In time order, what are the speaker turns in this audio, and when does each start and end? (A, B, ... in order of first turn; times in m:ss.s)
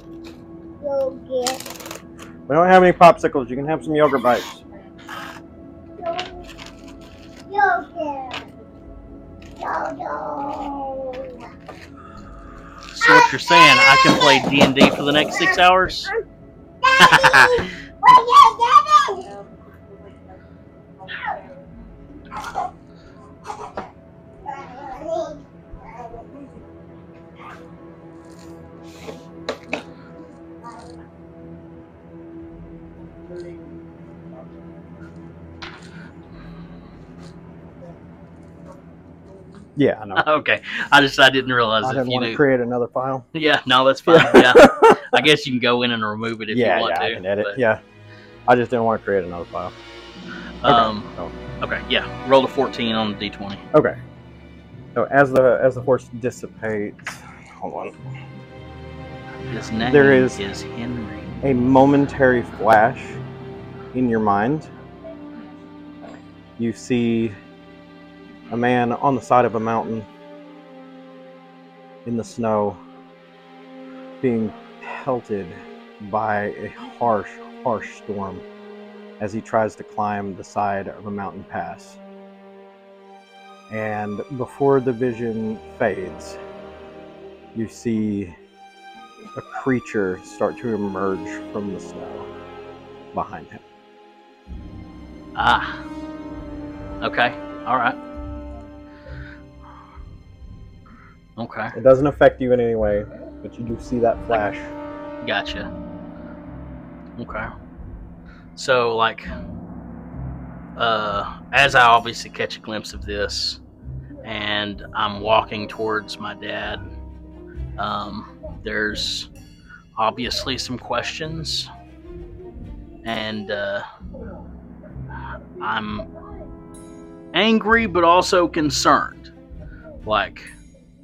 0:00.8-0:01.6 A
0:02.5-0:04.6 B
0:06.0-0:06.5 A
0:07.5-0:08.5 A
0:09.6-0:11.4 A
0:12.9-0:16.1 C
0:13.0-0:14.5 A
0:16.8-0:19.3 A
0:17.0-0:17.8 C
0:24.4-0:25.4 A
0:39.8-0:40.2 B
0:40.2-0:42.4 C
0:41.8-0:43.3 B
0:43.3-0:47.6 C
0:44.1-0:45.2 B
0:46.5-0:47.8 B
0:48.5-0:49.7 B
0:50.6-0:53.6 C
0:50.6-0:51.3 B
0:53.7-0:54.0 B
0:54.9-0:58.0 B
0:59.5-1:01.3 C
0:59.8-1:00.4 B
1:01.4-1:03.2 B
1:03.9-1:04.7 B
1:06.6-1:07.4 B
1:08.5-1:10.1 B
1:12.0-1:12.8 B
1:14.2-1:18.4 B
1:19.2-1:22.0 B
1:23.7-1:26.4 B
1:27.5-1:28.3 B
1:29.3-1:32.3 B
1:33.1-1:33.6 B
1:35.3-1:35.9 C
1:37.0-1:38.0 C
1:41.4-1:41.8 C
1:41.7-1:44.7 B
1:45.2-1:45.7 C
1:47.2-1:47.5 C
1:48.6-1:49.3 C
1:50.8-1:53.6 C
1:54.2-1:56.9 C
1:57.8-1:59.3 C
2:00.0-2:01.7 C
2:03.0-2:03.8 C
2:05.6-2:06.1 C
2:07.3-2:09.3 C
2:10.0-2:10.5 C